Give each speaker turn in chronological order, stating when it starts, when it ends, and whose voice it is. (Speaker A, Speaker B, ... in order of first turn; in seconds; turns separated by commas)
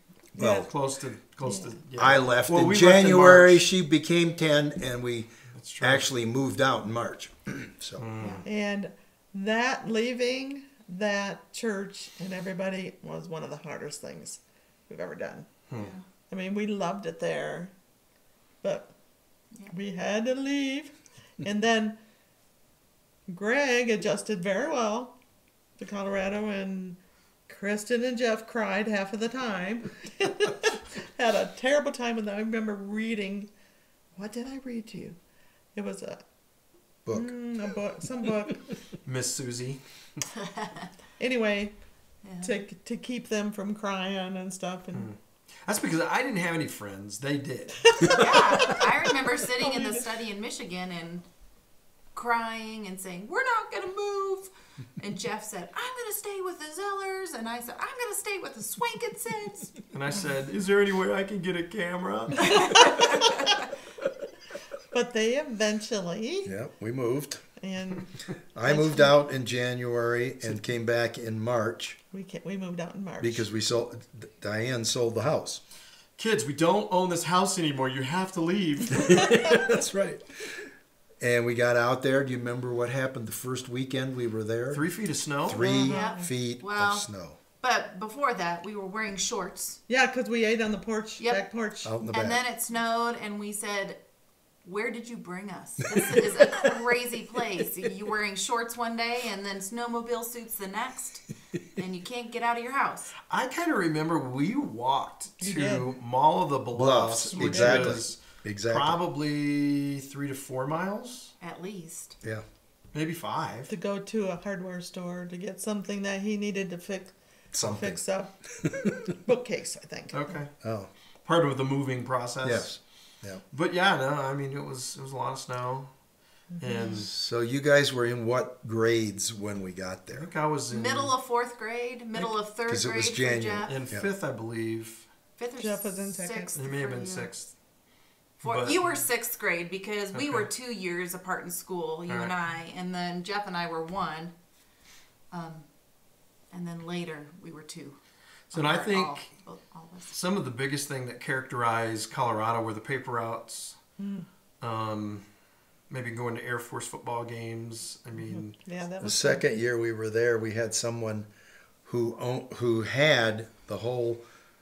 Speaker A: 0.4-0.7, Speaker B: 0.4-0.7, Speaker C: 0.4-3.6, Speaker A: 1.4-1.8, Speaker B: 2.0-8.1, Speaker C: 5.5-6.0, Speaker C: 8.0-8.4, Speaker A: 8.2-15.5, Speaker C: 15.7-15.9, Speaker D: 15.8-16.0, Speaker A: 16.3-17.7, Speaker A: 18.6-18.9, Speaker A: 19.7-22.0, Speaker A: 23.3-25.2, Speaker A: 25.8-33.5, Speaker A: 34.1-35.2, Speaker A: 35.7-36.2, Speaker B: 37.0-37.3, Speaker A: 37.1-38.6, Speaker C: 39.0-40.2, Speaker D: 40.4-40.9, Speaker A: 41.2-41.8, Speaker D: 42.2-42.5, Speaker A: 42.4-45.1, Speaker C: 44.9-48.8, Speaker A: 48.0-48.4, Speaker D: 48.1-51.2, Speaker A: 49.6-50.0, Speaker D: 52.1-59.8, Speaker C: 59.9-63.0, Speaker D: 62.4-63.6, Speaker A: 64.9-66.5, Speaker B: 66.4-67.4, Speaker A: 67.6-69.2, Speaker B: 68.5-72.0, Speaker A: 72.1-73.5, Speaker B: 73.2-75.6, Speaker C: 76.2-79.7, Speaker B: 79.2-80.7, Speaker B: 81.2-84.9, Speaker C: 84.7-85.7, Speaker B: 85.4-87.3, Speaker D: 85.5-89.8, Speaker A: 85.8-86.3, Speaker A: 89.9-91.9, Speaker B: 91.8-92.4, Speaker D: 92.1-94.0, Speaker D: 94.6-103.1, Speaker C: 103.3-111.3, Speaker A: 105.4-105.9, Speaker B: 106.7-109.0, Speaker A: 107.4-107.9, Speaker D: 111.4-112.2, Speaker C: 112.9-113.7, Speaker A: 113.7-118.3, Speaker B: 117.5-118.0, Speaker A: 119.2-120.3, Speaker C: 120.1-120.6, Speaker B: 120.6-120.9, Speaker C: 121.2-122.8, Speaker B: 122.4-123.4, Speaker C: 123.5-125.9, Speaker A: 126.5-126.9, Speaker C: 126.6-127.1, Speaker B: 126.9-130.3, Speaker C: 130.1-131.1, Speaker D: 130.7-133.8, Speaker B: 132.7-134.1, Speaker C: 133.7-135.1, Speaker D: 135.4-137.3, Speaker A: 135.6-136.5, Speaker C: 136.5-137.5, Speaker D: 138.4-144.3, Speaker C: 138.4-139.0, Speaker C: 140.1-140.5, Speaker C: 142.1-142.3, Speaker D: 145.3-145.7, Speaker D: 146.5-148.0, Speaker C: 148.5-149.3, Speaker D: 148.5-150.1, Speaker C: 150.1-153.8, Speaker A: 154.0-154.3, Speaker C: 154.6-155.3, Speaker C: 155.9-158.5, Speaker A: 158.3-159.5, Speaker B: 159.0-161.3, Speaker B: 161.8-164.2